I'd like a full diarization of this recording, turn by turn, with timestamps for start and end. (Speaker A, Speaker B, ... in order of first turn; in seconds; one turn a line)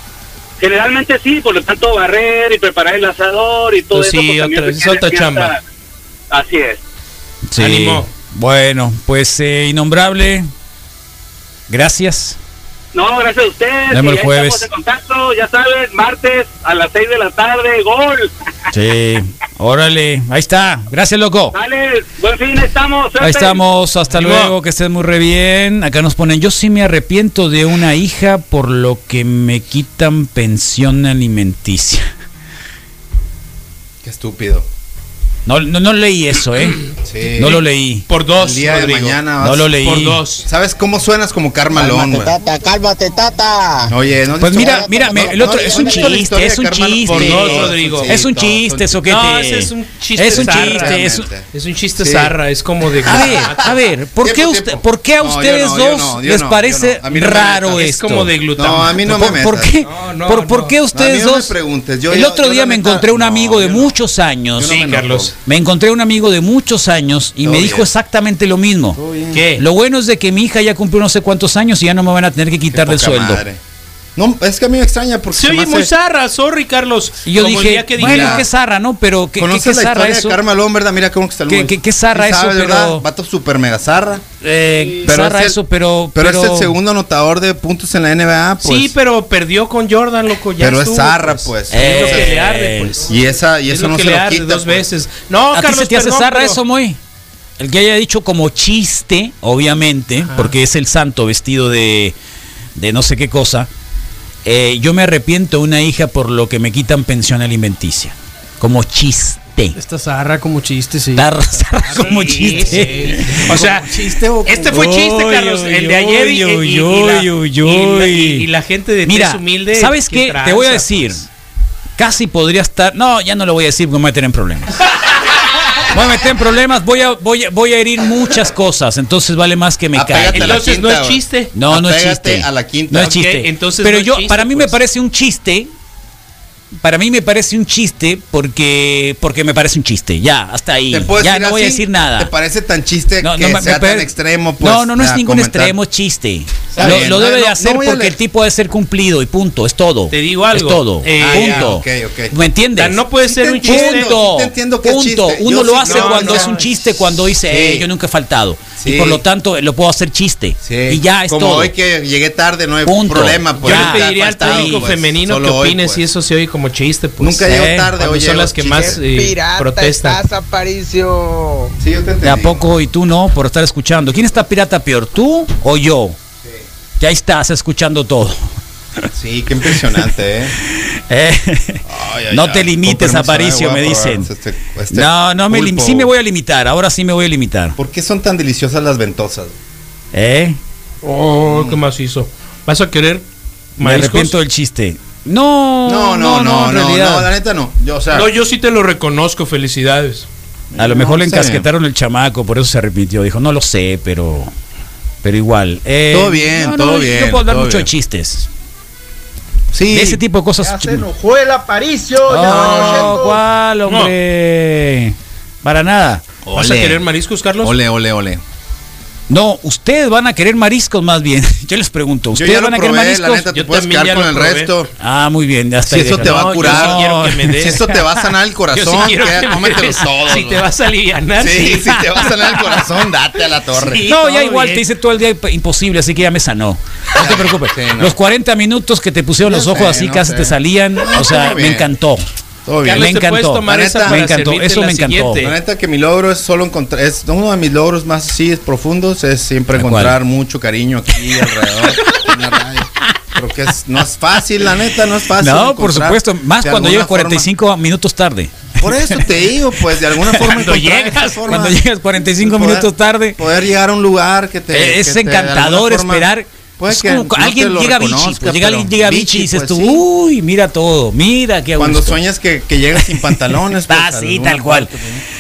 Speaker A: 0.6-5.6
Speaker B: 3.9-5.5
Speaker A: 6.3-6.8
Speaker C: 7.5-10.5
Speaker B: 7.6-8.1
Speaker C: 11.7-12.4
Speaker A: 12.9-18.3
Speaker C: 13.9-14.7
Speaker C: 18.7-21.6
Speaker A: 21.5-23.6
Speaker C: 23.2-32.1
Speaker B: 24.1-24.5
Speaker D: 34.0-34.7
Speaker C: 35.5-38.1
Speaker D: 37.0-37.6
Speaker B: 38.1-39.2
Speaker D: 38.4-39.7
Speaker C: 39.4-40.2
Speaker B: 39.8-40.5
Speaker D: 40.5-42.4
Speaker E: 41.7-44.0
Speaker D: 43.9-49.1
Speaker C: 44.4-51.3
Speaker E: 44.6-46.2
Speaker B: 47.1-48.2
Speaker B: 49.0-53.8
Speaker D: 50.3-52.4
Speaker D: 53.0-53.7
Speaker C: 53.0-58.3
Speaker D: 54.2-57.8
Speaker B: 57.6-59.3
Speaker D: 58.6-59.8
Speaker C: 59.0-61.5
Speaker B: 59.8-60.7
Speaker D: 60.9-64.0
Speaker C: 62.1-64.8
Speaker D: 64.6-65.3
Speaker B: 64.6-65.3
Speaker C: 65.5-69.0
Speaker D: 67.4-67.9
Speaker D: 69.0-69.5
Speaker B: 69.3-69.6
Speaker C: 69.6-73.4
Speaker D: 72.7-73.6
Speaker D: 74.2-75.9
Speaker B: 75.3-78.5
Speaker C: 77.3-80.4
Speaker D: 77.9-78.5
Speaker D: 79.4-84.3
Speaker C: 81.5-83.0
Speaker C: 84.4-86.8
Speaker D: 85.0-85.6
Speaker D: 86.1-88.9
Speaker B: 88.6-96.6
Speaker D: 90.6-92.3
Speaker C: 91.7-93.0
Speaker D: 93.1-94.9
Speaker C: 95.5-97.0
Speaker C: 97.6-102.2
Speaker C: 102.8-103.7
Speaker C: 104.5-109.8
Speaker F: 109.8-114.7
Speaker C: 111.2-113.7
Speaker B: 112.0-112.8
Speaker B: 113.4-121.2
Speaker C: 114.6-118.5
Speaker C: 119.1-121.3
Speaker C: 122.0-124.8
Speaker C: 125.8-130.6
Speaker D: 129.9-133.1
Speaker B: 130.3-131.5
Speaker C: 131.6-135.7
Speaker B: 133.0-134.8
Speaker C: 136.8-142.3
Speaker D: 140.9-145.8
Speaker C: 143.2-153.1
Speaker B: 146.7-147.0
Speaker D: 146.8-148.2
Speaker B: 150.1-151.7
Speaker D: 151.2-152.3
Speaker B: 152.8-154.1
Speaker D: 153.2-157.9
Speaker C: 153.6-161.7
Speaker B: 155.8-156.7
Speaker D: 158.8-159.2
Speaker D: 160.6-166.1
Speaker C: 162.8-164.9
Speaker B: 163.6-170.2
Speaker D: 167.2-169.0
Speaker C: 167.5-167.9
Speaker G: 169.1-171.8
Speaker D: 171.8-172.6
Speaker C: 172.2-176.2
Speaker C: 177.0-178.4
Speaker D: 179.1-180.6
Speaker C: 180.7-184.3
Speaker D: 181.9-186.1
Speaker C: 184.9-187.8
Speaker D: 187.8-189.6
Speaker C: 190.1-190.6
Speaker B: 191.0-193.3
Speaker D: 191.5-191.8
Speaker B: 193.8-194.3
Speaker C: 193.8-197.3
Speaker D: 195.9-198.3
Speaker B: 198.1-200.3
Speaker D: 200.8-201.7
Speaker C: 200.8-204.5
Speaker C: 205.2-208.5
Speaker D: 206.1-207.9
Speaker D: 209.7-210.2
Speaker C: 209.9-211.1
Speaker G: 210.6-213.4
Speaker C: 212.3-216.2
Speaker D: 212.3-213.3
Speaker B: 212.4-213.1
Speaker B: 213.9-214.1
Speaker D: 216.5-217.0
Speaker B: 216.5-217.8
Speaker D: 217.6-218.4
Speaker C: 219.3-223.4
Speaker D: 222.3-224.9
Speaker B: 223.5-224.7
Speaker C: 225.0-227.8
Speaker D: 225.9-230.7
Speaker B: 226.1-228.0
Speaker B: 228.7-232.3
Speaker D: 231.4-234.1
Speaker B: 233.8-234.9
Speaker C: 234.1-242.2
Speaker D: 237.2-238.2
Speaker D: 239.4-241.9
Speaker D: 242.7-243.1
Speaker B: 242.8-245.5
Speaker C: 242.9-245.5
Speaker D: 243.6-244.2
Speaker D: 245.4-257.5
Speaker C: 249.8-250.2
Speaker C: 255.4-259.2
Speaker D: 258.8-261.8
Speaker C: 260.1-263.4
Speaker D: 262.4-266.3
Speaker C: 264.7-272.2
Speaker D: 266.8-270.0
Speaker D: 271.8-275.2
Speaker C: 273.0-274.9